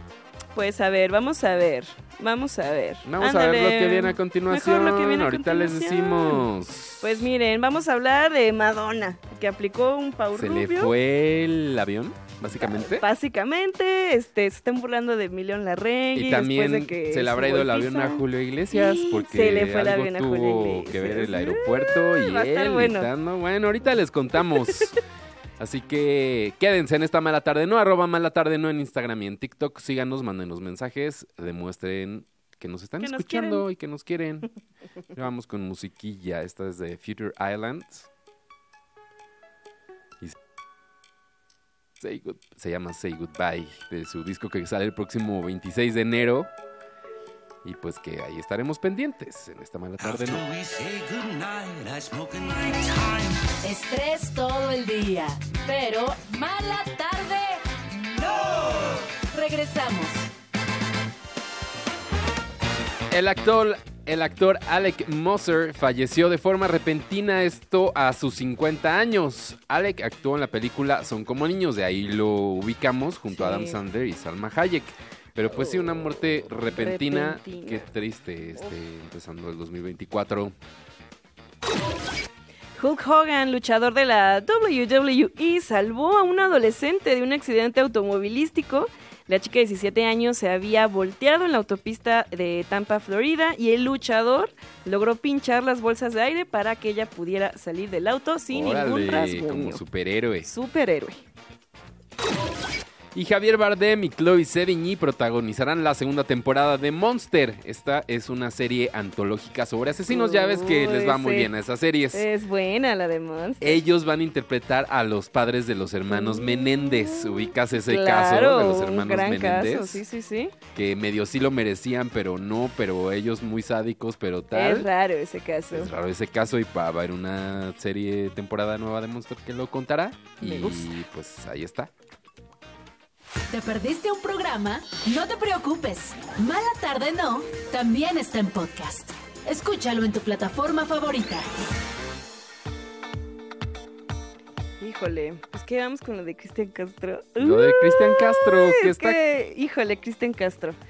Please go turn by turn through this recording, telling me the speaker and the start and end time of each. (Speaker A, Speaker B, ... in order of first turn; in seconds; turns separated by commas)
Speaker A: 0.6-6.5, Speaker B: 3.0-7.2, Speaker A: 7.0-10.9, Speaker B: 10.3-13.1, Speaker A: 12.6-23.1, Speaker B: 16.1-25.0, Speaker B: 25.6-34.5, Speaker A: 33.0-33.6, Speaker B: 35.1-38.1, Speaker B: 42.0-46.5, Speaker B: 47.6-50.4, Speaker C: 50.0-53.5, Speaker D: 53.6-60.3, Speaker B: 63.1-80.5, Speaker A: 73.3-73.8, Speaker A: 75.5-76.2, Speaker A: 76.7-77.9, Speaker A: 82.8-99.8, Speaker B: 98.5-100.5, Speaker A: 100.4-101.2, Speaker B: 103.1-112.2, Speaker A: 110.1-111.5, Speaker A: 112.1-113.8, Speaker B: 113.6-120.0, Speaker A: 116.1-120.5, Speaker B: 120.7-124.9, Speaker A: 124.5-125.9, Speaker B: 125.7-131.9, Speaker A: 130.4-130.9, Speaker D: 133.5-141.5, Speaker A: 144.8-150.8, Speaker B: 147.4-149.2